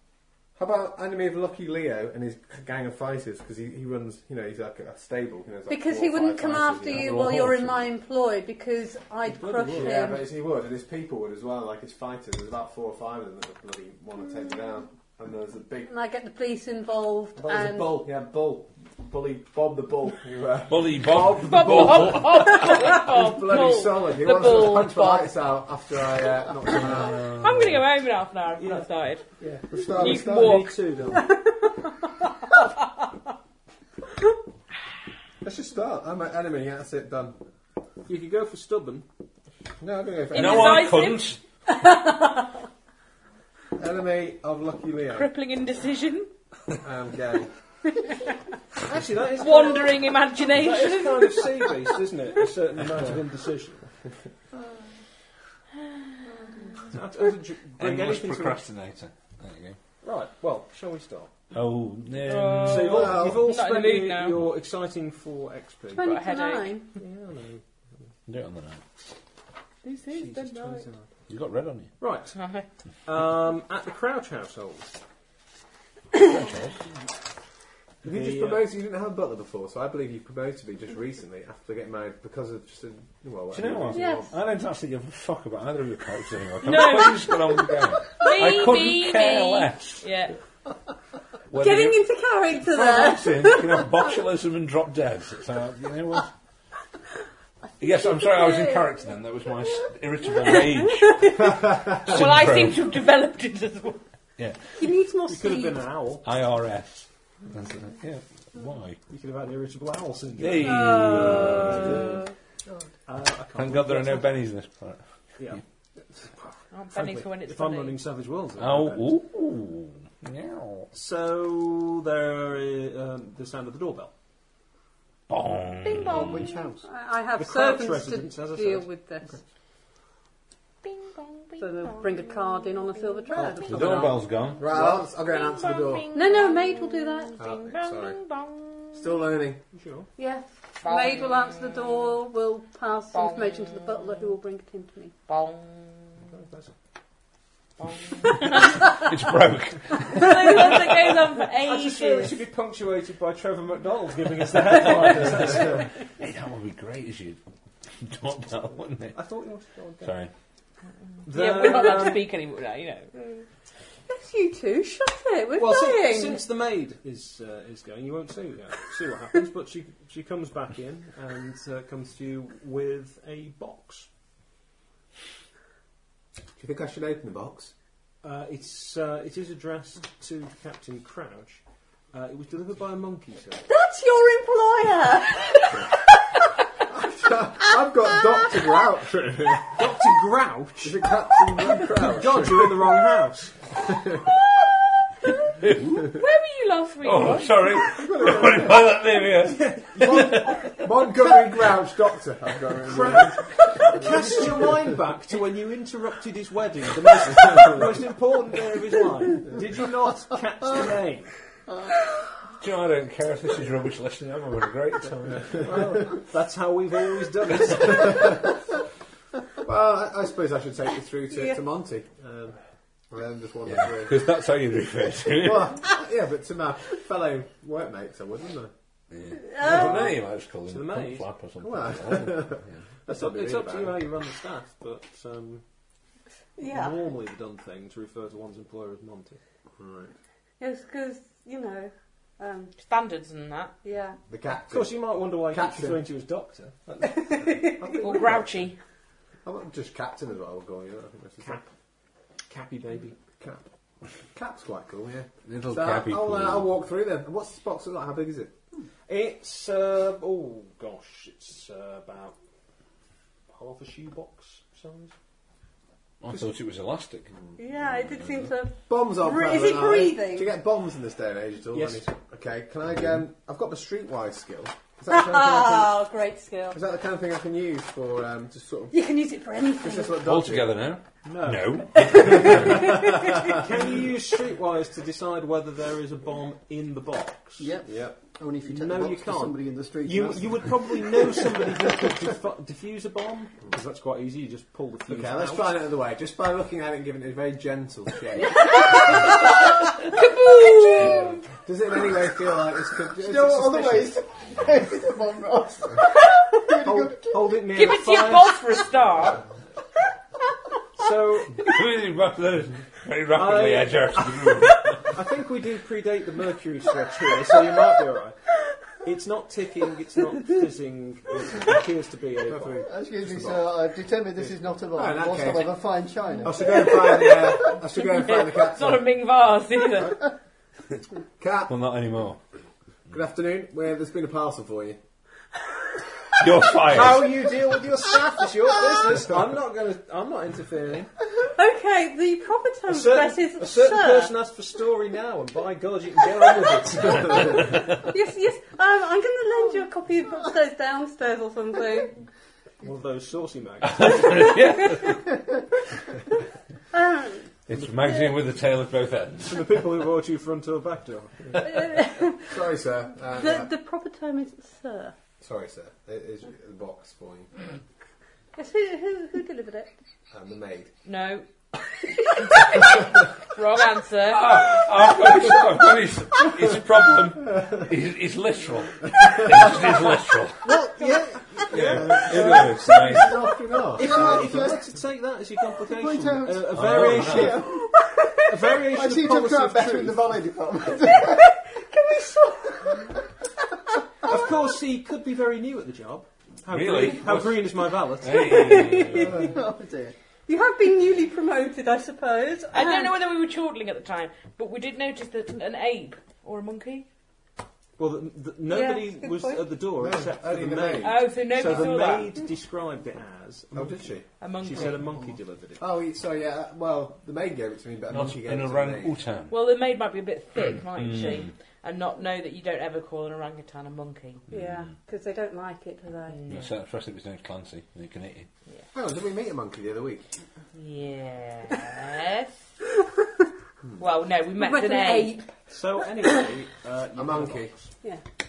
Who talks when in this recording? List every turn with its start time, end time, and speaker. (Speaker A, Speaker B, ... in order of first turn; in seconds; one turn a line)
Speaker A: 0.6-7.5
Speaker B: 5.7-10.3
Speaker C: 6.9-7.8
Speaker D: 9.2-10.2
Speaker A: 9.7-15.9
Speaker B: 15.9-18.1
Speaker A: 17.4-27.4
Speaker C: 20.7-22.7
Speaker E: 21.4-25.4
Speaker C: 26.9-27.8
Speaker E: 27.1-29.2
Speaker D: 28.6-28.9
Speaker D: 29.4-31.3
Speaker A: 29.4-30.7
Speaker E: 29.9-30.8
Speaker B: 31.1-31.9
Speaker A: 35.4-37.4
Speaker D: 38.1-39.1
Speaker A: 39.8-41.0
Speaker E: 40.3-41.3
Speaker C: 40.3-41.4
Speaker B: 41.7-42.5
Speaker A: 43.8-45.3
Speaker E: 45.1-46.3
Speaker A: 46.8-47.5
Speaker D: 48.8-53.9
Speaker E: 49.4-51.4
Speaker D: 56.7-58.6
Speaker C: 57.8-59.8
Speaker D: 60.0-61.3
Speaker C: 61.5-63.2
Speaker E: 62.2-64.4
Speaker D: 62.6-66.1
Speaker A: 62.9-63.5
Speaker B: 66.0-66.9
Speaker E: 66.0-66.8
Speaker D: 67.0-67.6
Speaker C: 68.3-68.8
Speaker E: 69.8-70.9
Speaker D: 70.1-71.1
Speaker C: 71.3-71.9
Speaker D: 72.0-72.4
Speaker E: 72.3-72.7
Speaker D: 73.0-75.0
Speaker C: 76.2-76.8
Speaker D: 78.0-78.7
Speaker A: 78.0-84.3
Speaker C: 83.5-90.1
Speaker B: 83.9-84.3
Speaker E: 86.6-87.4
Speaker E: 88.2-90.3
Speaker C: 91.5-96.3
Speaker B: 91.6-94.1
Speaker C: 97.8-101.5
Speaker B: 97.8-99.2
Speaker B: 100.3-101.6
Speaker A: 101.7-102.2
Speaker C: 102.0-103.0
Speaker E: 102.0-104.0
Speaker C: 104.4-104.8
Speaker B: 104.8-105.8
Speaker D: 105.3-106.3
Speaker C: 106.2-109.0
Speaker D: 109.1-111.6
Speaker C: 110.4-112.2
Speaker B: 110.6-112.3
Speaker D: 113.1-114.3
Speaker C: 113.6-115.6
Speaker D: 115.4-119.1
Speaker E: 116.7-118.0
Speaker C: 118.6-120.9
Speaker D: 120.9-124.1
Speaker C: 125.3-126.6
Speaker F: 126.1-126.8
Speaker B: 126.8-129.4
Speaker D: 127.4-128.9
Speaker E: 131.3-132.0
Speaker B: 131.6-134.2
Speaker C: 133.4-134.8
Speaker F: 133.7-134.2
Speaker A: 134.6-136.1
Speaker E: 135.3-139.1
Speaker B: 136.1-137.3
Speaker A: 137.4-138.2
Speaker A: 138.9-139.6
Speaker D: 139.7-140.1
Speaker B: 140.2-145.1
Speaker E: 140.8-142.1
Speaker E: 143.1-144.2
Speaker E: 145.3-146.2
Speaker D: 146.3-146.7
Speaker E: 147.8-148.8
Speaker C: 148.7-150.6
Speaker E: 150.1-152.4
Speaker D: 151.6-155.9
Speaker C: 154.8-157.4
Speaker A: 155.4-155.8
Speaker C: 158.0-159.2
Speaker D: 159.1-160.2
Speaker C: 160.0-160.3
Speaker D: 161.3-162.3
Speaker E: 161.3-163.4
Speaker B: 164.1-166.5
Speaker D: 165.6-174.1
Speaker A: 176.6-177.7
Speaker D: 178.2-183.7
Speaker B: 183.7-185.9
Speaker A: 186.9-190.0
Speaker B: 187.8-188.8
Speaker D: 189.8-191.1
Speaker A: 190.8-193.0
Speaker D: 191.9-193.7
Speaker A: 193.8-194.3
Speaker C: 195.6-196.1
Speaker E: 196.1-197.6
Speaker C: 197.0-200.9
Speaker A: 197.8-199.0
Speaker D: 199.6-200.6
Speaker A: 200.0-205.0
Speaker D: 202.8-211.3
Speaker A: 207.2-208.1
Speaker C: 212.6-215.7
Speaker D: 215.3-218.4
Speaker A: 217.9-218.5
Speaker A: 219.6-222.6
Speaker A: 223.1-224.3
Speaker C: 223.7-225.8
Speaker A: 225.3-228.7
Speaker C: 229.1-232.8
Speaker B: 229.4-230.2
Speaker D: 230.7-231.3
Speaker A: 231.6-234.1
Speaker D: 233.1-235.6
Speaker B: 236.6-237.0
Speaker D: 236.6-239.4
Speaker A: 239.8-240.1
Speaker B: 240.6-242.7
Speaker E: 242.8-243.7
Speaker B: 243.8-244.2
Speaker A: 244.3-246.1
Speaker D: 244.7-247.1
Speaker B: 247.0-248.1
Speaker A: 247.5-248.7
Speaker E: 248.0-248.8
Speaker A: 249.4-251.7
Speaker D: 251.4-251.7
Speaker D: 252.5-253.2
Speaker A: 253.4-253.7
Speaker A: 254.3-258.5
Speaker C: 255.4-256.7
Speaker D: 259.1-262.4
Speaker D: 263.5-265.1
Speaker C: 266.2-267.3
Speaker B: 267.6-270.5
Speaker A: 268.9-276.0
Speaker D: 271.7-272.1
Speaker B: 275.1-276.8
Speaker A: 276.7-278.9
Speaker B: 278.9-280.2
Speaker A: 279.8-280.9
Speaker C: 280.2-282.9
Speaker D: 281.2-282.6
Speaker B: 282.0-283.6
Speaker D: 283.4-287.7
Speaker F: 287.6-291.7
Speaker A: 287.9-288.2
Speaker D: 288.7-295.8
Speaker A: 295.1-299.4
Speaker E: 298.6-299.4
Speaker E: 300.0-301.4
Speaker A: 301.1-304.2
Speaker F: 303.1-307.6
Speaker D: 306.9-308.9
Speaker E: 307.7-309.4
Speaker D: 311.0-311.7
Speaker C: 311.6-315.2
Speaker D: 313.3-318.4
Speaker D: 318.9-322.9
Speaker A: 322.5-323.8
Speaker F: 322.8-327.3
Speaker A: 324.9-325.9
Speaker A: 326.4-329.1
Speaker E: 327.6-330.2
Speaker A: 331.4-331.8
Speaker C: 331.7-332.4
Speaker A: 333.1-335.0
Speaker C: 336.4-337.3
Speaker D: 336.9-341.1
Speaker B: 341.4-344.3
Speaker D: 342.9-347.9
Speaker B: 348.0-352.2
Speaker D: 352.8-354.5
Speaker C: 353.9-355.2
Speaker B: 356.9-357.5
Speaker C: 357.7-359.6
Speaker D: 359.5-361.6
Speaker B: 361.6-362.6
Speaker A: 362.5-363.7
Speaker B: 363.4-365.1
Speaker A: 365.4-367.5
Speaker B: 368.6-369.9
Speaker A: 370.3-370.9
Speaker E: 371.1-371.5
Speaker E: 372.6-372.9
Speaker E: 373.5-374.6
Speaker C: 374.3-380.7
Speaker A: 377.5-377.9
Speaker A: 379.2-379.7
Speaker D: 380.6-383.2
Speaker C: 381.7-383.4
Speaker A: 381.8-384.8
Speaker D: 384.0-387.7
Speaker F: 384.0-384.8
Speaker F: 385.8-387.9
Speaker C: 386.7-387.7
Speaker B: 387.7-388.4
Speaker D: 388.5-390.3
Speaker F: 388.8-391.5
Speaker B: 391.1-393.1
Speaker D: 394.2-398.6
Speaker C: 396.7-399.5
Speaker B: 398.3-399.5
Speaker F: 399.4-400.1
Speaker B: 400.5-403.2
Speaker E: 402.7-407.1
Speaker D: 408.0-414.1
Speaker B: 408.7-409.6
Speaker A: 410.0-412.1
Speaker E: 411.0-412.4
Speaker A: 413.7-415.0
Speaker E: 414.4-415.0
Speaker D: 414.6-415.9
Speaker A: 415.8-419.2
Speaker C: 418.1-419.6
Speaker E: 419.5-424.4
Speaker C: 421.0-421.5
Speaker C: 424.5-424.9
Speaker B: 424.5-426.4
Speaker E: 426.3-426.7
Speaker C: 426.5-428.5
Speaker A: 428.9-430.3
Speaker E: 430.7-432.6
Speaker E: 434.0-435.4
Speaker B: 434.6-436.3
Speaker D: 435.7-437.9
Speaker A: 437.1-437.8